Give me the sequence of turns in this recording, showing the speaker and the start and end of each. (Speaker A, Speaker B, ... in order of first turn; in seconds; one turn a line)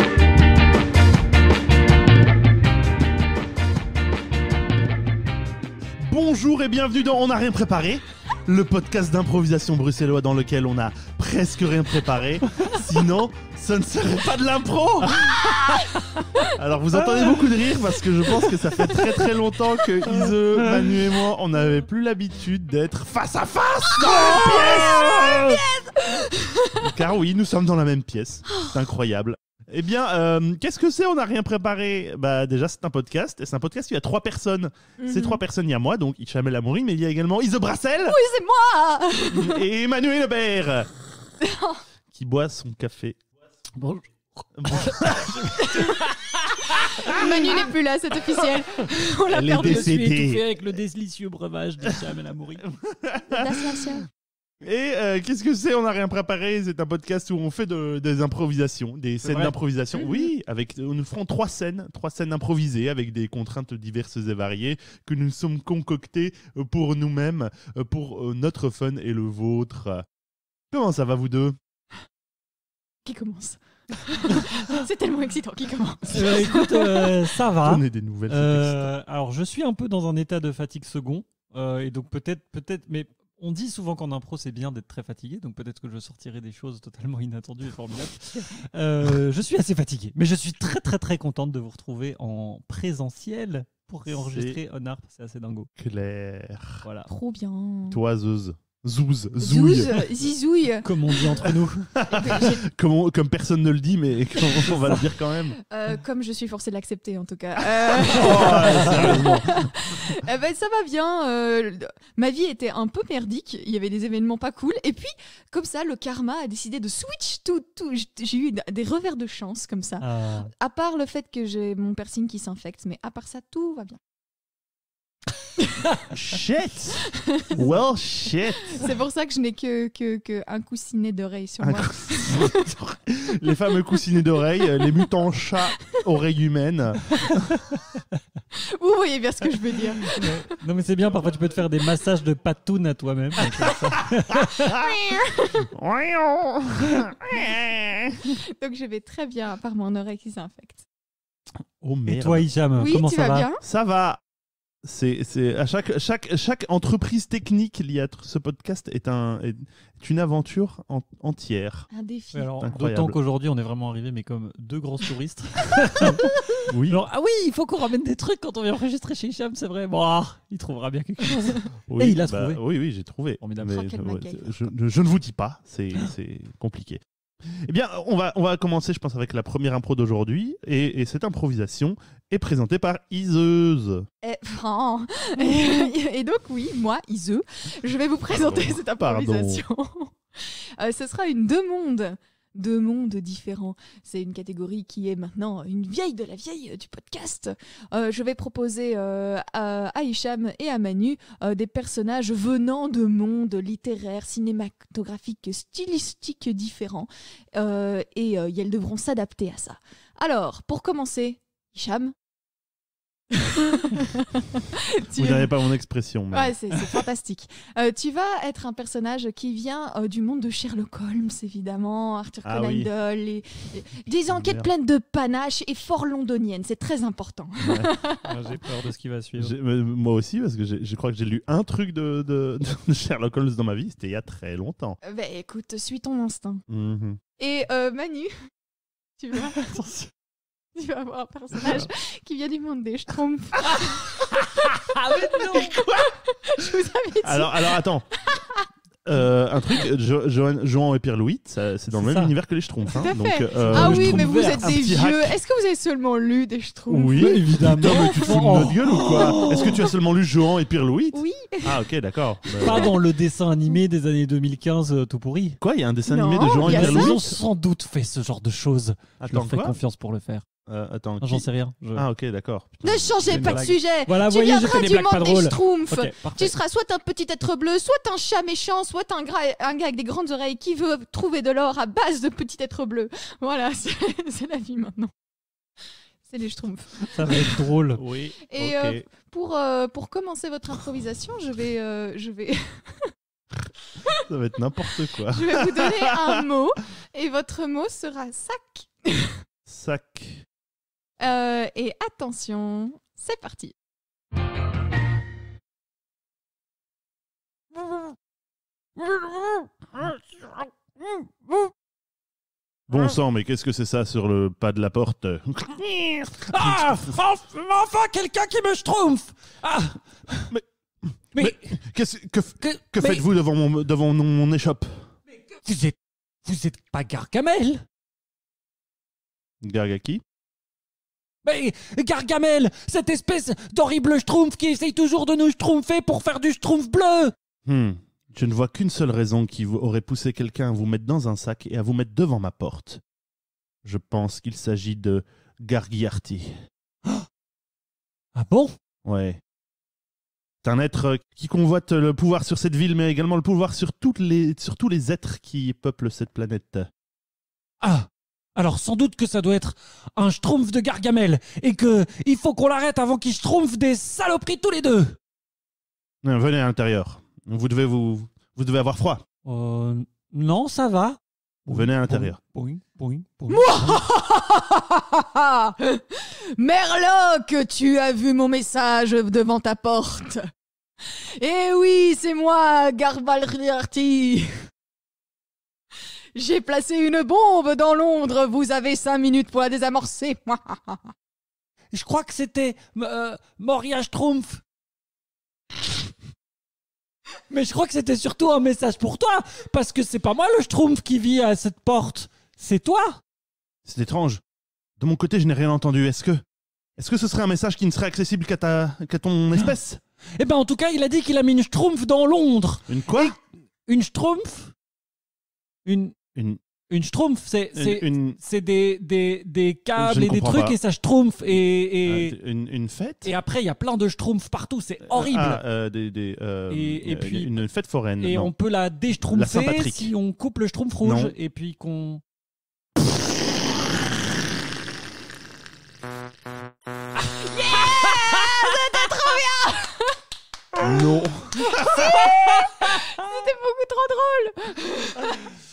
Speaker A: 6.0-15.6
Speaker B: 15.2-16.6
Speaker A: 16.5-25.6
Speaker C: 20.1-21.0
Speaker B: 23.9-26.9
Speaker C: 24.4-25.5
Speaker A: 26.8-38.2
Speaker B: 28.5-28.8
Speaker B: 35.0-35.4
Speaker B: 38.1-39.6
Speaker A: 39.3-40.9
Speaker B: 41.4-41.8
Speaker A: 42.1-43.2
Speaker C: 43.8-47.5
Speaker A: 44.6-45.5
Speaker B: 45.6-46.0
Speaker B: 46.6-50.0
Speaker C: 49.3-52.7
Speaker A: 49.3-50.4
Speaker A: 52.6-53.9
Speaker B: 53.3-54.0
Speaker A: 54.6-70.0
Speaker C: 59.2-59.5
Speaker A: 70.7-71.6
Speaker B: 73.0-77.4
Speaker C: 76.1-95.7
Speaker A: 77.6-78.9
Speaker A: 94.1-94.6
Speaker A: 95.8-96.9
Speaker C: 96.8-97.1
Speaker B: 97.1-98.0
Speaker A: 97.9-100.1
Speaker B: 99.4-101.5
Speaker C: 100.8-101.9
Speaker A: 101.5-105.6
Speaker B: 102.0-102.7
Speaker C: 104.6-105.0
Speaker B: 105.6-124.0
Speaker A: 107.9-109.7
Speaker C: 108.2-109.4
Speaker C: 120.0-120.5
Speaker A: 126.1-128.8
Speaker B: 127.3-127.5
Speaker B: 128.7-132.8
Speaker A: 131.6-137.6
Speaker B: 138.7-140.5
Speaker C: 140.1-144.7
Speaker A: 143.5-144.9
Speaker B: 144.6-145.7
Speaker A: 145.7-148.3
Speaker B: 148.3-150.8
Speaker A: 151.8-152.5
Speaker C: 152.1-153.5
Speaker B: 152.8-153.6
Speaker A: 153.6-154.2
Speaker A: 154.8-161.9
Speaker B: 161.9-162.5
Speaker C: 162.3-172.6
Speaker A: 162.6-163.2
Speaker A: 166.0-167.0
Speaker A: 171.9-184.1
Speaker C: 173.4-173.7
Speaker B: 173.6-174.7
Speaker B: 184.2-212.1
Speaker A: 188.3-189.7
Speaker B: 213.3-215.5
Speaker A: 215.2-216.6
Speaker B: 216.3-228.3
Speaker A: 222.4-222.9
Speaker A: 224.3-224.7
Speaker A: 227.6-227.9
Speaker C: 228.2-229.6
Speaker A: 229.4-235.0
Speaker B: 235.0-236.6
Speaker A: 236.7-237.2
Speaker B: 237.4-238.3
Speaker B: 239.2-239.8
Speaker C: 239.5-240.1
Speaker B: 240.8-248.7
Speaker C: 244.3-245.8
Speaker A: 245.5-246.1
Speaker A: 247.2-248.1
Speaker A: 249.1-255.3
Speaker C: 251.9-252.3
Speaker B: 252.9-258.5
Speaker C: 253.5-254.8
Speaker A: 256.9-262.9
Speaker C: 257.0-259.9
Speaker B: 261.1-261.8
Speaker B: 262.5-263.0
Speaker C: 262.6-265.6
Speaker A: 265.6-267.4
Speaker B: 266.1-267.3
Speaker C: 266.6-270.4
Speaker A: 269.2-269.8
Speaker A: 270.7-273.6
Speaker C: 271.2-272.1
Speaker B: 272.8-285.1
Speaker C: 273.3-276.6
Speaker B: 286.2-287.6
Speaker C: 287.1-288.0
Speaker A: 288.0-289.1
Speaker B: 288.5-293.1
Speaker A: 294.2-296.4
Speaker B: 295.3-299.4
Speaker A: 299.7-300.5
Speaker B: 301.2-303.7
Speaker C: 309.0-311.7
Speaker A: 312.9-317.1
Speaker C: 316.5-320.5
Speaker A: 320.5-325.1
Speaker C: 321.4-321.8
Speaker C: 322.6-323.2
Speaker C: 325.6-327.8
Speaker A: 329.6-330.2
Speaker C: 331.4-337.3
Speaker A: 337.7-343.0
Speaker A: 343.8-346.5
Speaker C: 348.4-348.7
Speaker A: 349.1-349.4
Speaker A: 350.6-356.9
Speaker C: 357.8-365.2
Speaker A: 366.2-369.2
Speaker C: 369.4-374.0
Speaker A: 371.7-372.4
Speaker B: 373.5-380.5
Speaker B: 381.1-384.7
Speaker B: 386.4-391.1
Speaker C: 391.9-394.6
Speaker C: 397.5-403.2
Speaker A: 403.9-404.4
Speaker A: 405.0-406.4
Speaker A: 407.0-410.0
Speaker C: 410.4-414.7
Speaker A: 412.9-413.4
Speaker C: 415.9-416.2
Speaker A: 416.4-416.6
Speaker C: 416.9-422.4
Speaker A: 417.7-418.4
Speaker A: 420.0-420.8
Speaker A: 422.1-423.3
Speaker C: 423.3-425.6
Speaker A: 425.1-428.5
Speaker C: 426.7-427.6
Speaker C: 428.2-432.2
Speaker A: 429.3-430.1
Speaker A: 431.0-431.3
Speaker B: 437.3-440.2
Speaker C: 437.9-438.5
Speaker A: 440.8-442.1
Speaker B: 441.6-445.5